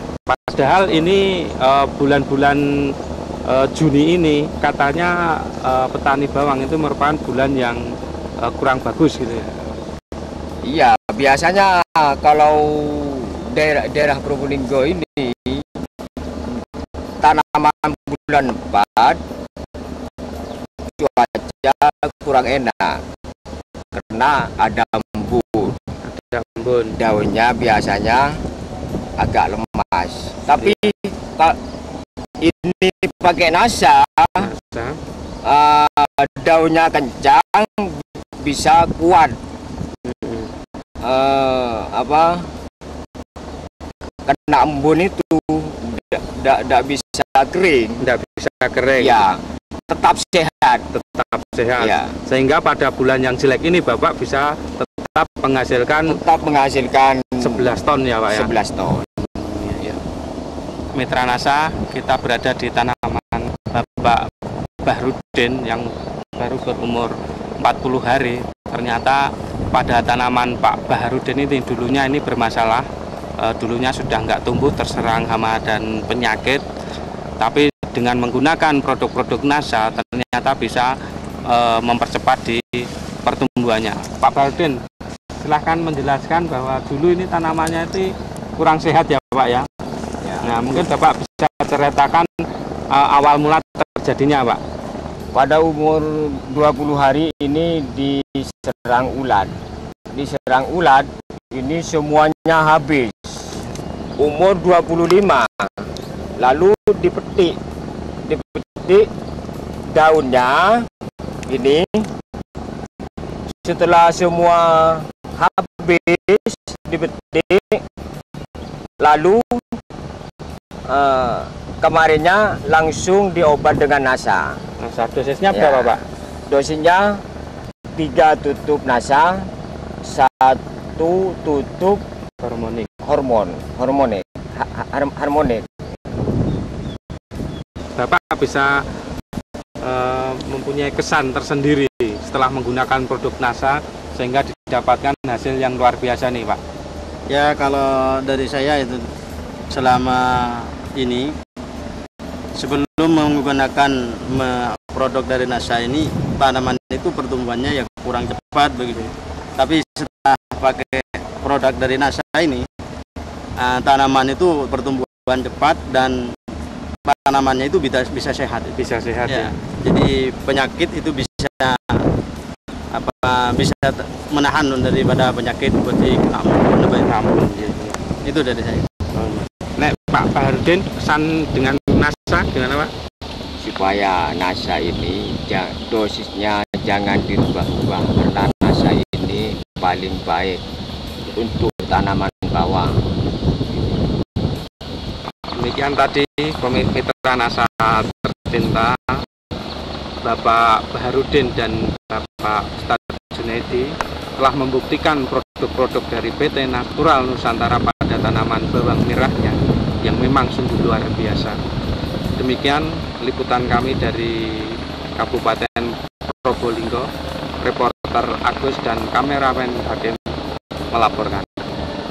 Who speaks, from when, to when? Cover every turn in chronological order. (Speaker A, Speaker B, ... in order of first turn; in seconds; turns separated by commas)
Speaker A: 0.3-7.8, Speaker A: 8.4-9.5, Speaker B: 9.3-9.6, Speaker B: 10.6-15.8, Speaker B: 17.2-19.2, Speaker B: 20.9-23.1, Speaker B: 23.9-25.8, Speaker A: 26.0-27.0, Speaker B: 27.0-28.4, Speaker B: 29.2-31.6, Speaker B: 32.4-34.5, Speaker A: 34.4-35.0, Speaker B: 35.4-39.4, Speaker A: 40.0-40.5, Speaker B: 41.0-42.5, Speaker B: 44.3-48.0, Speaker A: 48.0-49.2, Speaker B: 49.0-50.9, Speaker A: 50.9-56.2, Speaker B: 51.8-52.2, Speaker B: 56.1-59.1, Speaker A: 57.4-58.5, Speaker A: 59.2-60.0, Speaker A: 60.9-64.3, Speaker A: 64.8-72.9, Speaker A: 73.4-76.6, Speaker A: 77.4-84.8, Speaker A: 85.4-89.7, Speaker B: 90.2-90.9, Speaker A: 90.4-94.6, Speaker B: 95.3-99.6, Speaker B: 100.1-103.5, Speaker B: 104.2-107.6, Speaker B: 108.2-109.1, Speaker B: 109.9-110.9, Speaker B: 111.5-112.1, Speaker B: 113.6-117.8, Speaker B: 119.0-119.7, Speaker B: 120.9-124.6, Speaker A: 124.8-126.0, Speaker B: 125.5-127.2, Speaker B: 127.9-129.5, Speaker B: 130.0-132.0, Speaker A: 132.4-132.9, Speaker B: 133.0-135.7, Speaker A: 138.0-138.9, Speaker A: 139.8-146.6, Speaker C: 147.3-149.1, Speaker C: 149.7-151.4, Speaker C: 152.6-162.7, Speaker C: 163.6-166.3, Speaker C: 167.1-172.1, Speaker A: 168.8-169.5, Speaker C: 172.9-177.3, Speaker A: 177.0-178.0, Speaker C: 178.2-178.9, Speaker A: 179.1-182.9, Speaker B: 183.6-190.6, Speaker B: 191.3-193.0, Speaker A: 195.5-199.2, Speaker A: 200.2-211.6, Speaker A: 212.4-217.1, Speaker A: 217.6-220.4, Speaker A: 220.9-221.7